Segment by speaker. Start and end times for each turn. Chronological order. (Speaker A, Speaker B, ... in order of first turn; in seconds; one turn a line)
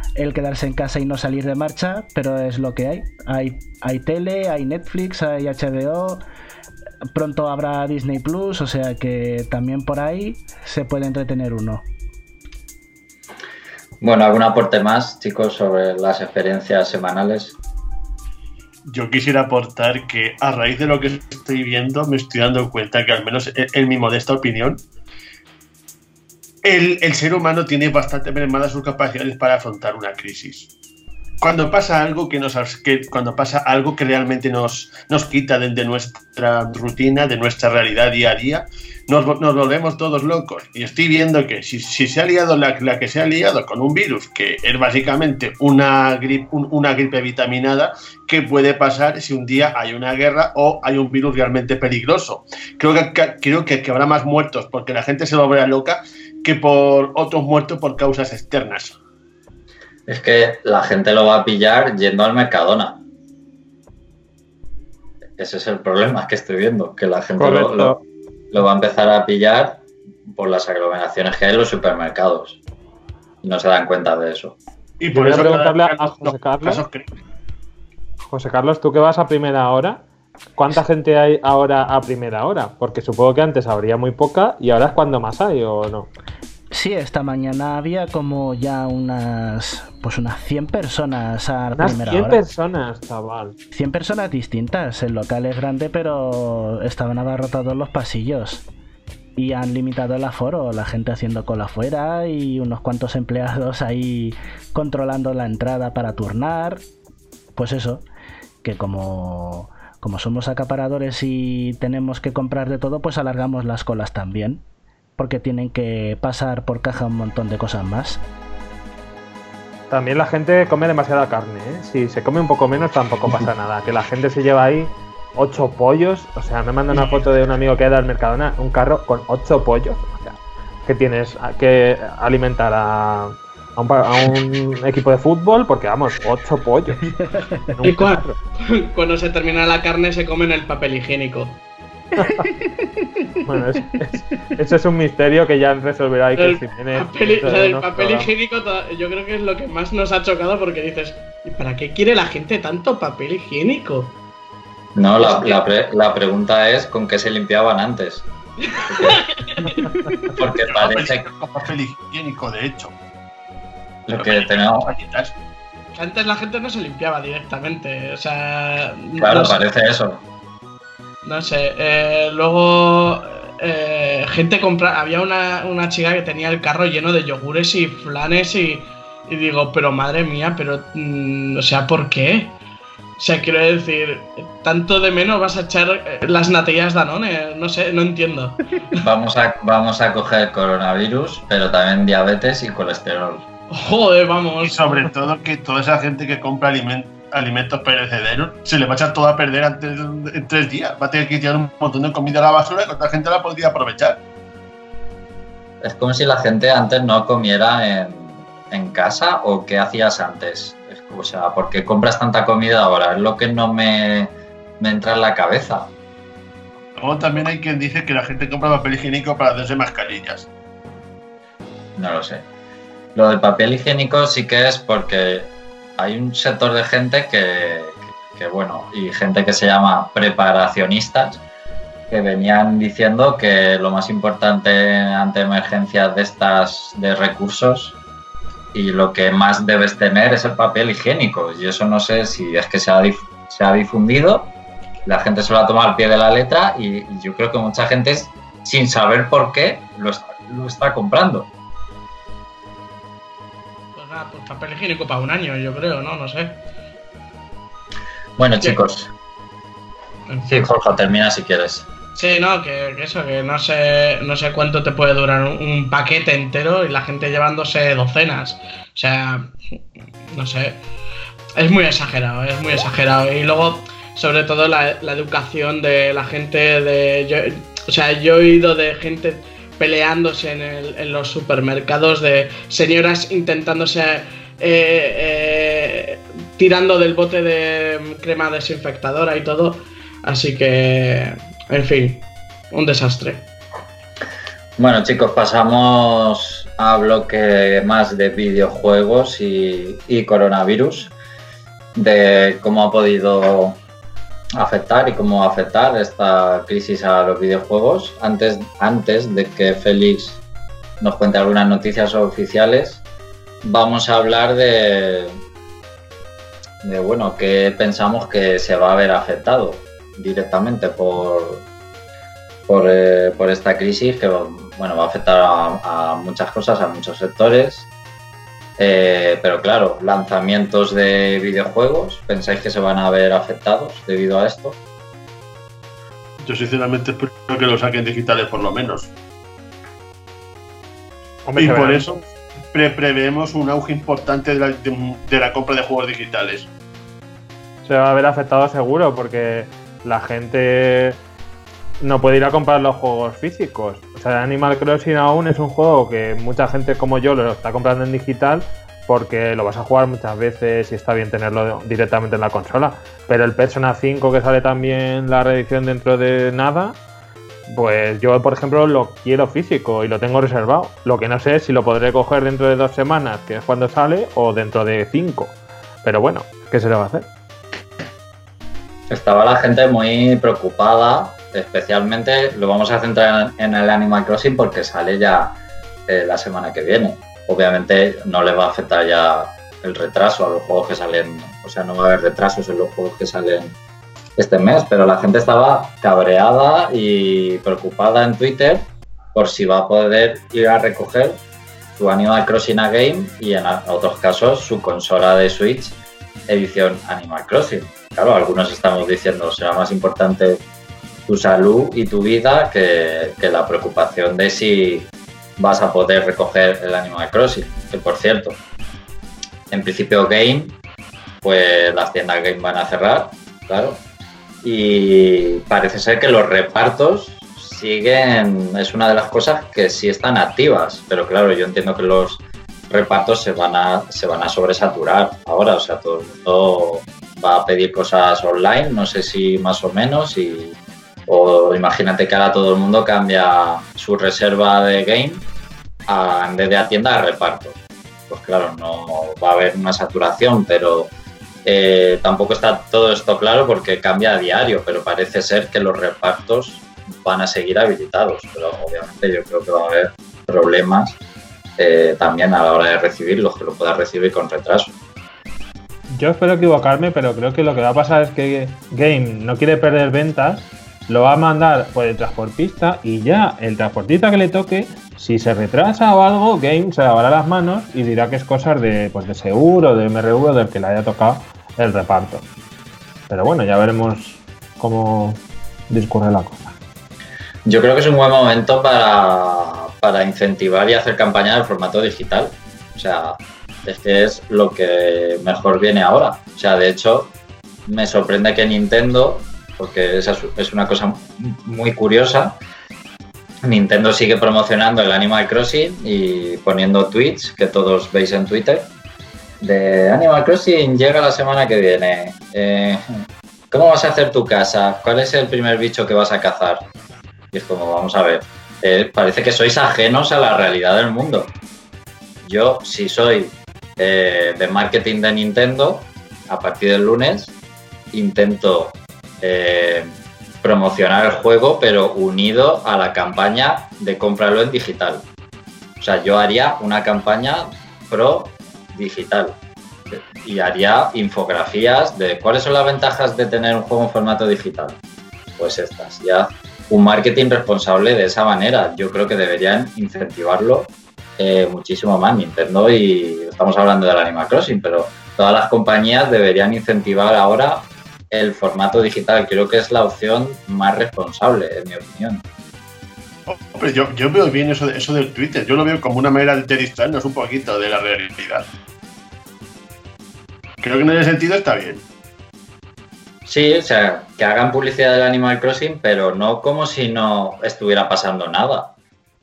Speaker A: 0.2-6.2
Speaker A: 7.1-11.8
Speaker B: 14.0-17.5
Speaker C: 18.9-24.8
Speaker C: 26.6-30.7
Speaker C: 31.4-59.0
Speaker B: 60.1-63.0
Speaker B: 65.4-68.0
Speaker D: 67.4-68.0
Speaker B: 68.5-72.6
Speaker B: 73.4-74.5
Speaker C: 75.0-77.1
Speaker D: 75.1-76.8
Speaker D: 78.2-80.0
Speaker D: 80.6-86.1
Speaker A: 86.7-92.4
Speaker D: 91.8-93.5
Speaker A: 93.7-98.6
Speaker A: 99.4-106.8
Speaker A: 107.5-108.0
Speaker A: 108.6-114.6
Speaker A: 115.2-118.2
Speaker D: 119.9-138.3
Speaker E: 137.8-141.6
Speaker D: 142.2-142.5
Speaker A: 142.6-143.3
Speaker D: 143.4-148.3
Speaker E: 146.4-154.2
Speaker B: 154.9-158.3
Speaker E: 155.2-155.6
Speaker E: 158.6-159.8
Speaker B: 158.8-159.2
Speaker B: 160.3-161.3
Speaker C: 160.4-162.9
Speaker B: 164.1-164.9
Speaker C: 164.2-165.3
Speaker E: 165.9-169.6
Speaker B: 169.2-170.2
Speaker E: 171.2-182.6
Speaker E: 183.2-189.0
Speaker B: 189.0-193.4
Speaker E: 193.7-195.0
Speaker C: 194.6-204.2
Speaker B: 205.8-215.9
Speaker C: 216.9-220.5
Speaker B: 222.0-222.4
Speaker B: 223.1-231.4
Speaker B: 232.1-237.9
Speaker B: 238.7-244.5
Speaker B: 245.1-251.5
Speaker E: 253.9-256.6
Speaker B: 258.4-259.1
Speaker E: 260.3-260.6
Speaker B: 260.4-261.9
Speaker E: 262.1-269.5
Speaker E: 270.3-270.8
Speaker E: 271.6-293.5
Speaker B: 294.8-301.1
Speaker B: 301.9-303.8
Speaker B: 304.6-310.4
Speaker B: 311.0-313.0
Speaker B: 313.6-315.4
Speaker B: 316.8-321.6
Speaker B: 322.7-327.9
Speaker B: 328.8-334.8
Speaker C: 336.4-339.1
Speaker D: 341.4-342.1
Speaker C: 341.6-346.7
Speaker D: 347.8-351.2
Speaker D: 352.0-367.0
Speaker D: 367.7-377.3
Speaker B: 379.1-385.6
Speaker B: 386.1-393.7
Speaker B: 394.4-401.4
Speaker B: 401.9-406.0
Speaker B: 406.5-410.6
Speaker B: 411.3-418.6
Speaker B: 419.7-420.8
Speaker B: 421.4-424.0
Speaker B: 424.6-440.8
Speaker B: 441.3-445.4
Speaker B: 446.1-447.8
Speaker B: 448.3-451.1
Speaker B: 451.6-461.2
Speaker B: 461.8-464.9
Speaker D: 466.1-482.4
Speaker D: 483.3-486.7
Speaker B: 487.6-497.3
Speaker B: 497.9-502.6
Speaker B: 503.6-508.9
Speaker B: 509.6-516.8
Speaker B: 517.5-521.5
Speaker B: 522.4-527.5
Speaker B: 528.1-535.2
Speaker B: 536.0-539.5
Speaker B: 540.1-545.0
Speaker B: 545.6-562.4
Speaker C: 563.5-568.6
Speaker C: 570.8-572.0
Speaker B: 573.5-578.9